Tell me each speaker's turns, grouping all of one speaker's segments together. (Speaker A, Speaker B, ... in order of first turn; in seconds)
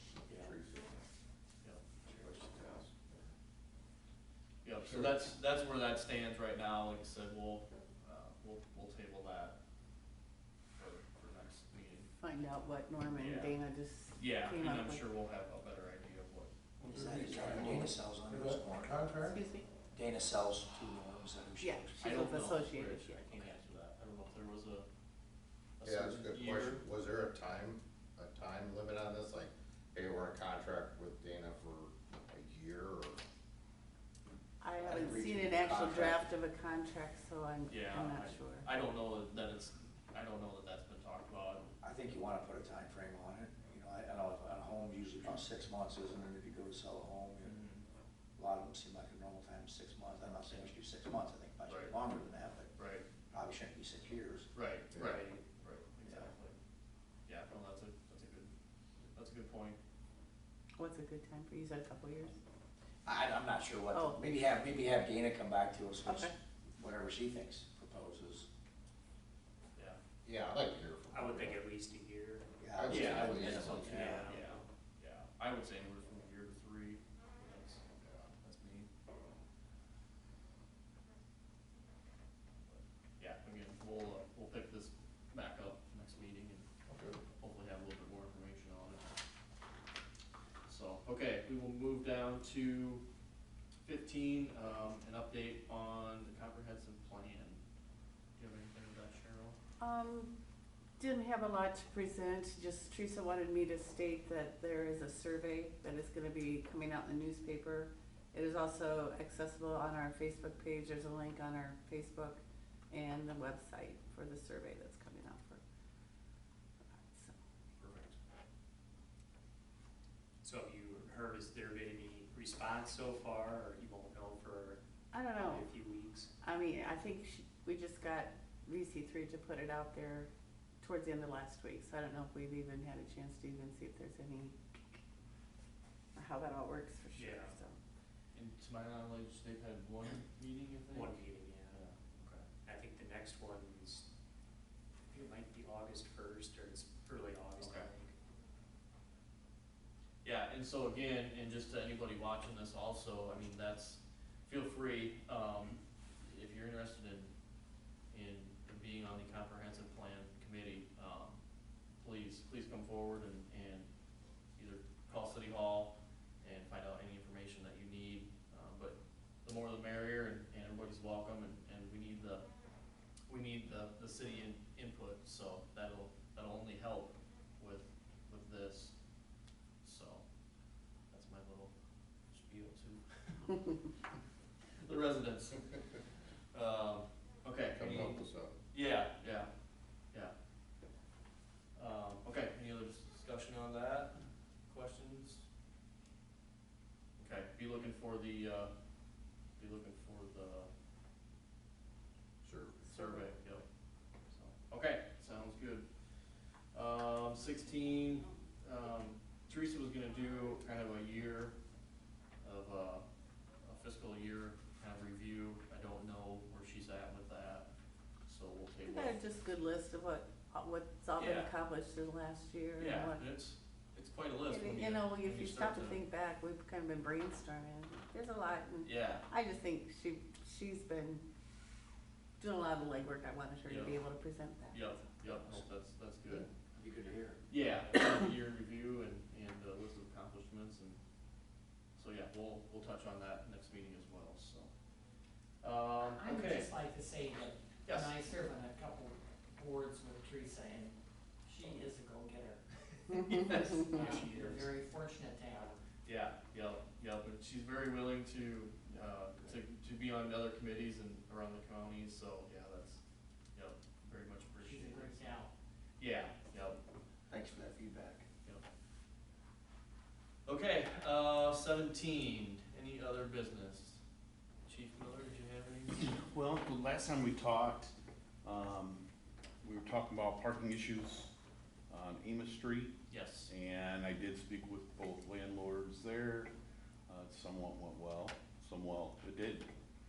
Speaker A: 0.2-0.9, 2.1-3.3, 4.7-5.1, 16.8-19.4, 25.8-33.2, 70.2-71.6, 72.7-74.3, 77.9-78.3, 86.9-87.2, 187.7-188.6, 202.4-202.8
Speaker B: 1.6-2.3, 4.6-9.6, 10.7-12.1, 13.1-13.6, 14.2-16.5, 22.0-24.9, 25.8-26.8, 37.7-41.7, 47.4-47.8, 50.5-50.7, 51.7-52.0, 52.8-53.0, 54.5-56.5, 57.2-59.8, 72.9-77.8, 78.4-78.9, 82.7-86.7, 87.4-89.2, 90.7-93.0, 93.8-97.6, 98.4-99.5, 138.3-142.4, 147.6-147.9, 150.2-157.3, 158.1-161.4, 161.9-163.9, 164.6-183.8, 184.8-186.0, 186.5-190.3, 191.7-195.4, 197.2-200.7, 202.8-205.9, 206.7-211.6, 212.4-213.0, 213.6-217.7, 218.2-219.2, 221.2-221.5, 222.8-226.0, 228.8-229.3, 233.7-234.0, 234.7-236.5, 237.5-241.0, 241.9-244.7, 245.6-246.8, 247.8-248.2, 253.2-254.6, 256.0-263.0, 263.5-265.4, 266.0-266.8, 270.4-274.0, 274.6-276.1, 283.1-283.5
Speaker C: 12.2-15.0, 19.2-19.7, 21.6-23.4, 34.6-38.7, 60.8-62.4, 63.9-64.3, 66.0-66.3, 99.8-100.3, 101.0-115.6, 116.9-117.3, 125.1-125.7, 126.4-130.3, 130.8-135.0, 136.1-137.8, 202.9-203.3, 218.8-223.2, 224.4-231.2, 232.4-234.9
Speaker D: 16.8-19.1, 19.9-22.1, 34.7-36.3, 41.8-47.5, 48.4-52.7, 53.3-54.5, 63.0-68.5, 72.6-74.3, 236.3-237.4, 267.3-268.2
Speaker E: 71.1-72.5, 73.2-74.6, 117.8-118.1, 120.4-124.8, 125.3-126.3, 137.2-137.5, 140.9-141.8, 142.4-144.1, 145.0-148.1, 254.0-254.7
Speaker F: 246.2-253.3, 254.2-255.8, 264.6-265.5
Speaker G: 276.0-279.0, 279.6-281.3, 281.9-286.5, 287.1-289.7